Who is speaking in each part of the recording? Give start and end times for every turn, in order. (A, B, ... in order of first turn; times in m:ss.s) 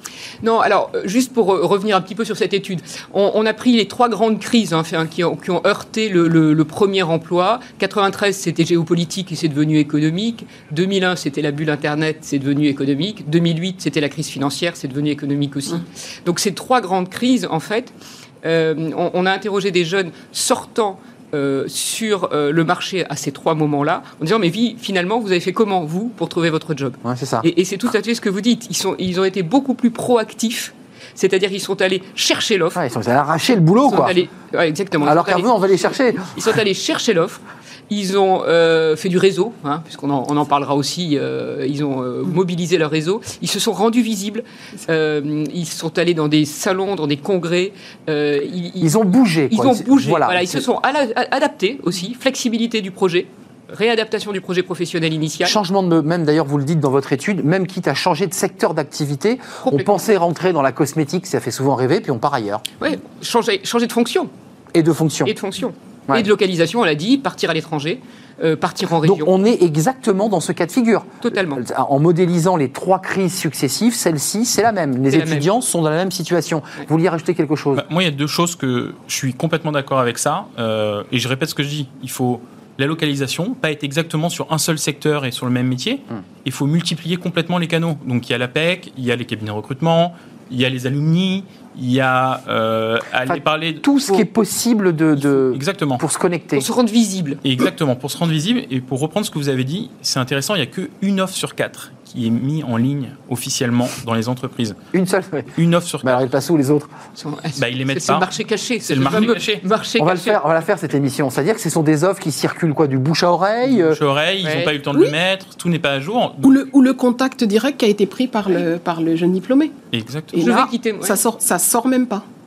0:00.4-0:32.8 A
0:27.0-0:27.5 B
0:32.8-0:34.2 B
0:33.8-0:49.0 A
0:35.0-0:36.4 B
0:48.8-0:50.7 B
0:49.5-0:55.6 A
0:55.4-1:02.6 B
0:59.7-1:00.0 A
1:02.8-1:04.3 A
1:04.7-1:05.3 B
1:05.2-1:09.3 A
1:09.0-1:17.8 B
1:11.2-1:11.6 A
1:15.1-1:15.5 A
1:17.8-1:34.2 C
1:33.3-1:36.7 B
1:35.2-1:36.0 C
1:36.6-1:37.4 A
1:37.4-1:44.8 C
1:44.9-1:45.5 B
1:45.6-1:46.2 C
1:46.0-1:46.9 B
1:47.2-1:50.4 A
1:47.5-1:48.3 C
1:48.9-1:49.6 C
1:50.0-1:54.0 B
1:53.7-1:56.6 C
1:54.4-1:54.8 A
1:56.4-1:59.8 D
1:59.9-2:00.4 C
2:00.3-2:02.2 D
2:00.4-2:01.2 A